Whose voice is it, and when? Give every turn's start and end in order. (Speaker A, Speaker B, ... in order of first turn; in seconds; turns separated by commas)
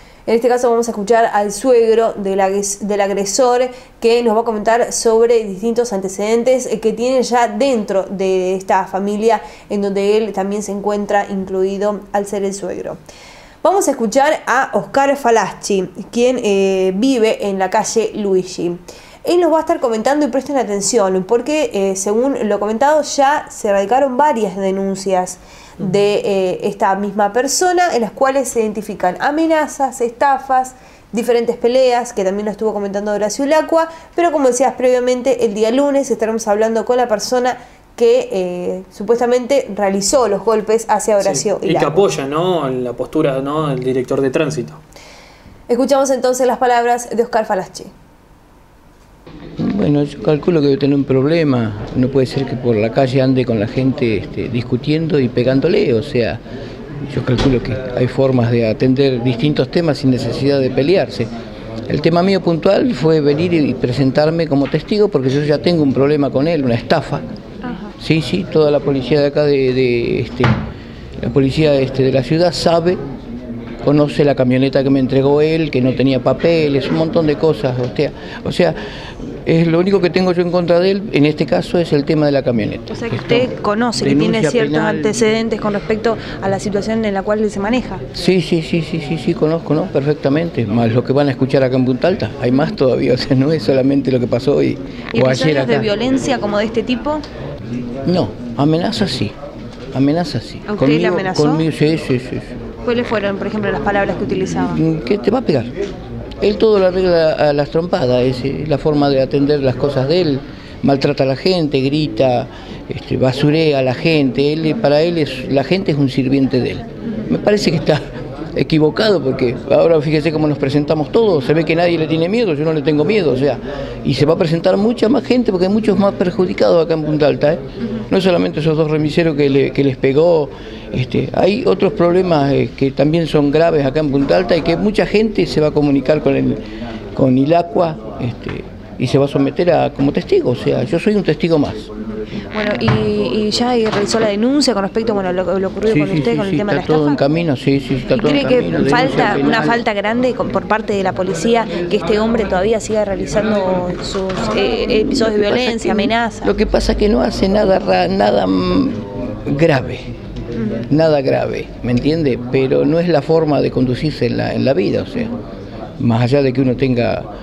Speaker A: 0.3-13.0, Speaker A: 13.6-42.0, Speaker B: 41.2-44.8, Speaker A: 45.7-47.9, Speaker C: 49.6-56.4, Speaker C: 57.1-61.3, Speaker C: 61.9-67.2, Speaker A: 67.6-67.9, Speaker C: 68.0-70.5, Speaker C: 71.2-73.0, Speaker C: 73.8-85.1, Speaker A: 82.9-88.0, Speaker C: 88.1-95.9, Speaker A: 95.1-97.2, Speaker C: 98.0-99.3, Speaker C: 99.9-102.5, Speaker A: 100.7-101.7, Speaker A: 102.8-104.8, Speaker C: 104.5-105.7, Speaker C: 106.4-118.0, Speaker C: 118.5-136.6, Speaker C: 137.1-141.9, Speaker A: 142.5-147.2, Speaker C: 145.8-149.8, Speaker A: 148.1-156.5, Speaker C: 155.0-160.1, Speaker A: 160.6-160.8, Speaker C: 160.9-165.4, Speaker C: 166.0-167.3